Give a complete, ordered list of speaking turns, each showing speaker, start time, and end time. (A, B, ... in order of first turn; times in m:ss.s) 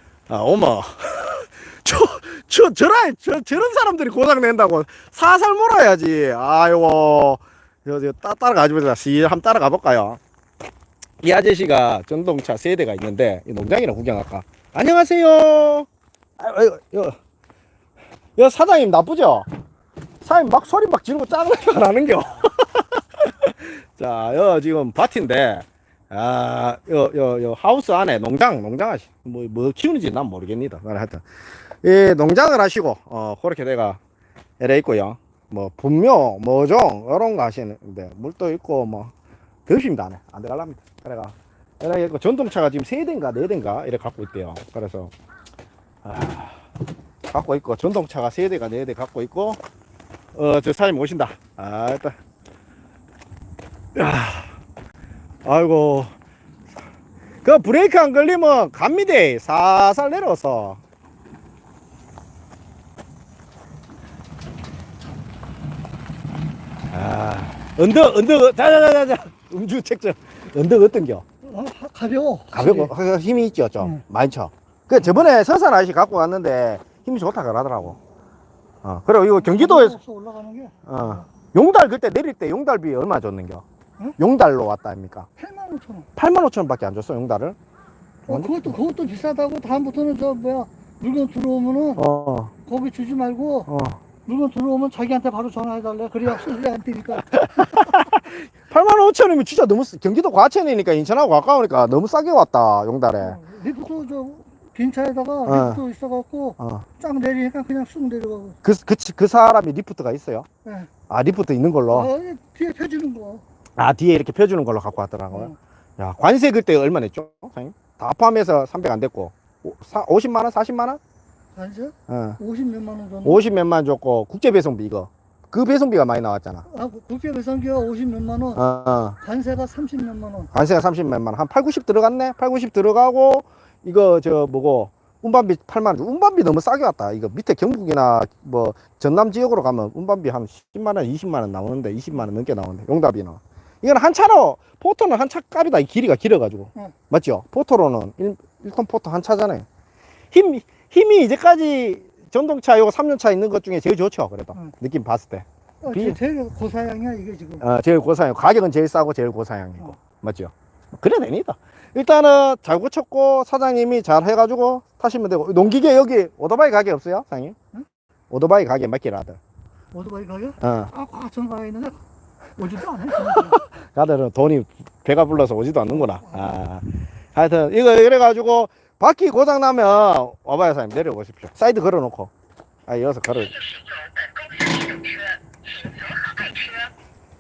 0:00.3-0:10.2 A
0:11.2-0:15.9 A
0:16.4-0:17.2 A
0:18.4-0:19.5 A
0:20.2-0:31.2 A
0:31.8-0:34.0 A
0:34.6-0:39.1 A
0:39.7-0:45.1 A
0:46.0-0:46.6 A
0:47.3-0:49.6 A
0:50.4-0:52.2 A
0:54.0-0:54.5 A
0:55.4-0:56.1 A
0:57.4-1:00.8 A
1:06.9-1:11.2 A
1:11.4-1:12.9 B
1:12.5-1:18.0 A
1:18.8-1:20.0 A
1:19.4-1:21.2 B
1:20.9-1:23.6 A
1:24.2-1:25.3 A
1:25.4-1:26.1 B
1:26.2-1:27.6 A
1:28.3-1:28.8 A
1:28.3-1:32.0 B
1:32.0-1:32.5 A
1:32.7-1:33.7 B
1:33.7-1:34.0 A
1:34.3-1:38.0 B
1:37.2-1:43.4 A
1:43.2-1:48.6 B
1:45.5-1:45.8 A
1:46.6-1:46.9 A
1:48.6-1:50.5 A
1:50.6-1:50.9 B
1:51.1-1:52.1 A
1:51.9-1:53.4 B
1:53.8-2:01.0 A
2:01.6-2:03.4 B
2:02.1-2:02.4 A
2:03.2-2:06.7 A
2:06.7-2:08.6 B
2:08.6-2:09.2 A
2:09.2-2:10.5 B
2:10.5-2:29.7 A
2:30.3-2:36.2 A
2:35.8-2:37.6 B
2:37.6-2:47.6 A
2:48.3-2:49.4 A
2:49.9-2:52.0 B
2:50.6-2:50.9 A
2:52.6-2:53.6 B
2:53.2-3:02.3 A
3:02.9-3:03.6 A